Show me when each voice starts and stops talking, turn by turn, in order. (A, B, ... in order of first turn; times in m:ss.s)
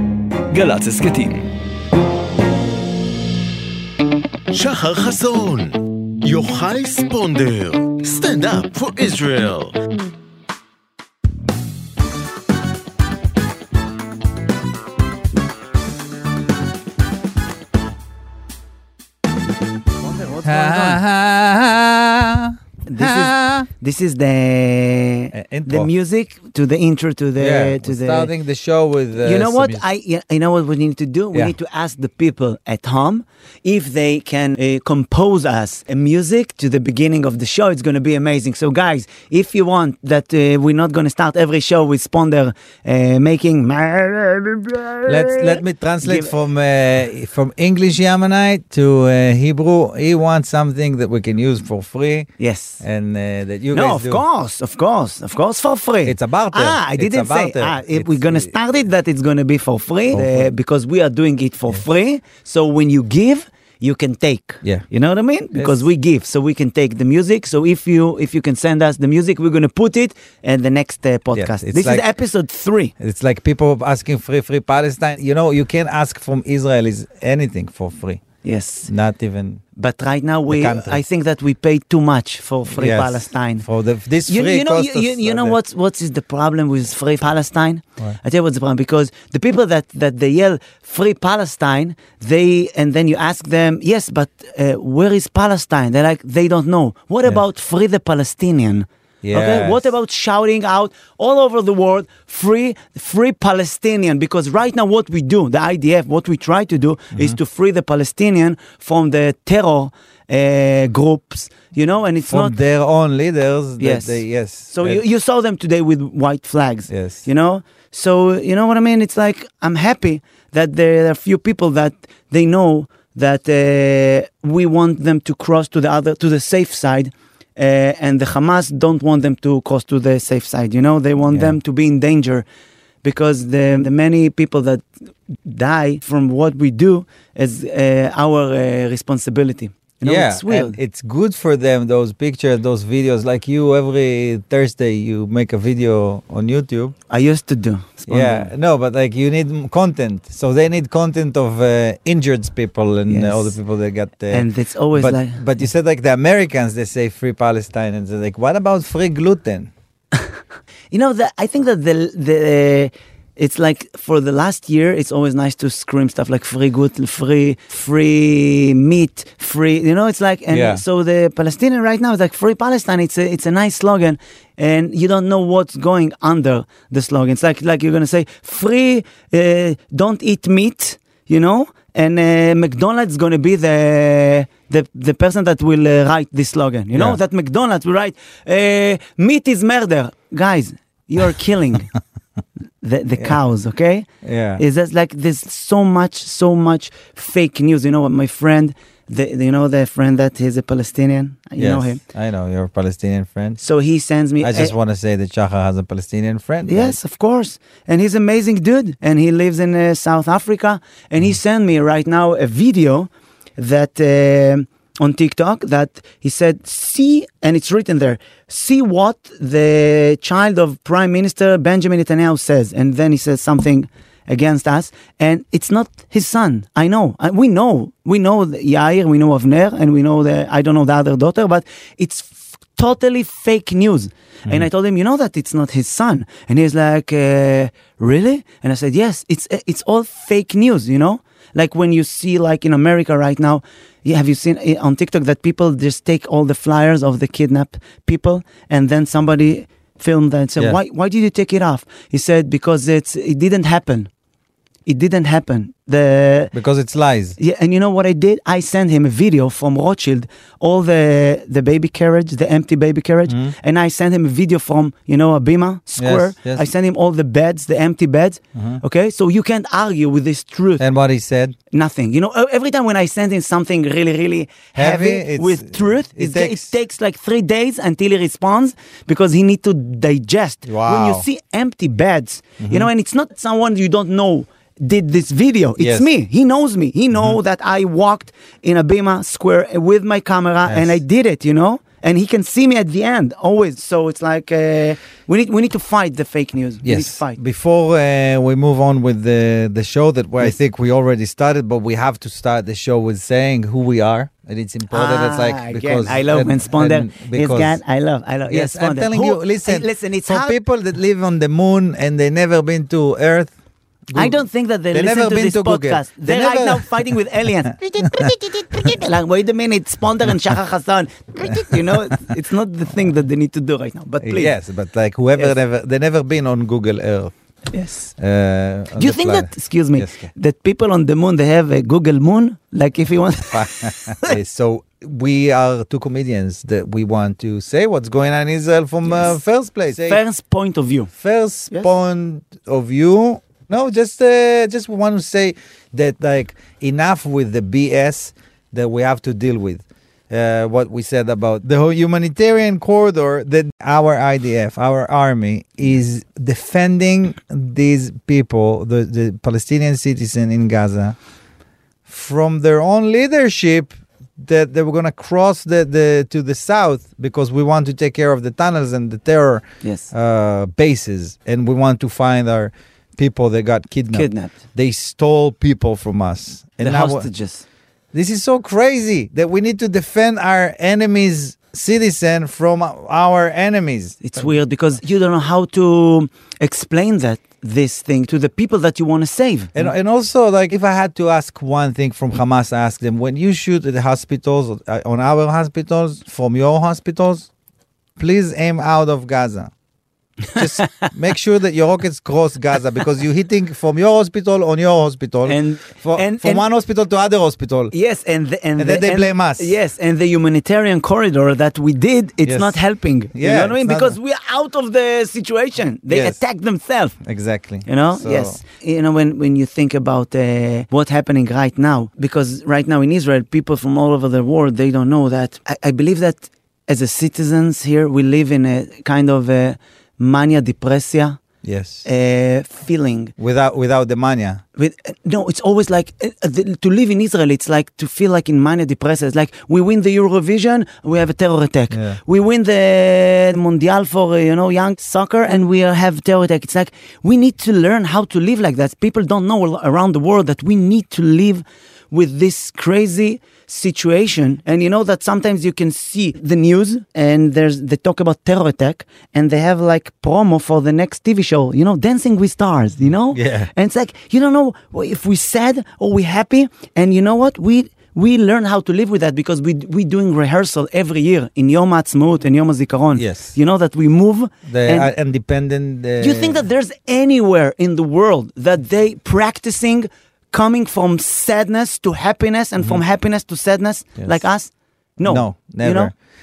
0:00.5-0:01.5 A
0:04.5-0:09.8 A
0:20.0-0:21.0 B
0:20.4-0:23.7 C
0:22.9-0:28.3 B
0:25.3-0:25.9 C
0:27.4-0:29.8 C
0:29.2-0:46.3 B
0:45.0-0:52.3 C
0:52.4-0:52.8 B
0:52.8-0:54.2 C
0:53.7-1:12.9 B
0:56.0-0:58.5 C
1:00.1-1:00.5 C
1:05.5-1:05.9 C
1:11.3-1:12.0 C
1:13.0-1:18.2 C
1:18.4-1:18.9 B
1:18.9-1:19.6 C
1:19.8-1:23.6 B
1:20.5-1:21.0 C
1:22.7-1:25.6 C
1:24.3-1:52.6 B
1:39.2-1:39.9 C
1:52.3-1:55.0 C
1:53.8-2:12.4 B
1:56.9-1:57.2 C
2:13.0-2:14.9 B
2:15.4-2:20.8 B
2:20.0-2:27.0 C
2:27.1-2:28.5 B
2:28.1-2:39.7 C
2:33.1-2:33.6 B
2:34.3-2:35.4 B
2:40.9-3:11.9 B
2:50.5-2:50.8 C
3:06.9-3:07.2 C
3:12.8-3:22.0 B
3:14.2-3:14.6 C
3:21.6-3:23.6 C
3:23.6-3:24.7 B
3:24.4-3:27.0 C
3:26.7-4:14.1 B
4:14.8-4:16.5 B
4:16.5-4:17.4 C
4:17.4-4:30.8 B
4:23.3-4:23.5 C
4:26.0-4:26.6 C
4:28.5-4:28.8 C
4:30.8-4:31.5 C
4:31.7-4:57.4 B
4:34.8-4:36.7 C
4:40.6-4:41.2 C
4:42.6-4:42.9 C
4:45.8-4:46.1 C
4:47.1-4:47.4 C
4:50.6-4:51.0 C
4:56.8-5:07.8 C
5:04.9-5:10.6 B
5:08.5-5:13.5 C
5:14.1-5:14.4 C
5:14.1-5:24.5 B
5:14.9-5:17.0 C
5:21.6-5:22.2 C
5:24.2-5:27.3 C
5:27.7-5:28.1 B
5:28.2-5:30.3 C
5:29.0-5:34.3 B
5:33.5-5:40.2 C
5:39.1-5:39.4 B
5:39.9-5:41.1 B
5:41.2-6:01.2 C
6:02.1-6:17.3 C
6:09.8-6:10.1 B
6:14.1-6:14.5 B
6:16.8-6:17.6 B
6:18.1-6:24.4 C
6:24.2-6:29.9 B
6:29.8-6:37.5 C
6:38.2-6:39.7 C
6:40.5-6:47.9 C
6:45.4-6:46.6 B
6:47.9-6:57.2 B
6:48.8-6:49.8 C
6:52.4-6:52.8 C
6:53.3-6:54.2 C
6:56.1-6:56.4 C
6:57.2-6:58.6 C
6:57.8-7:11.4 B
7:11.6-7:12.0 C
7:12.0-7:13.3 B
7:13.4-7:14.6 C
7:14.8-7:55.1 B
7:21.9-7:22.2 C
7:43.3-7:43.7 C
7:53.1-7:53.5 C
7:54.7-7:56.6 C
7:56.2-8:06.1 B
8:05.2-8:06.1 C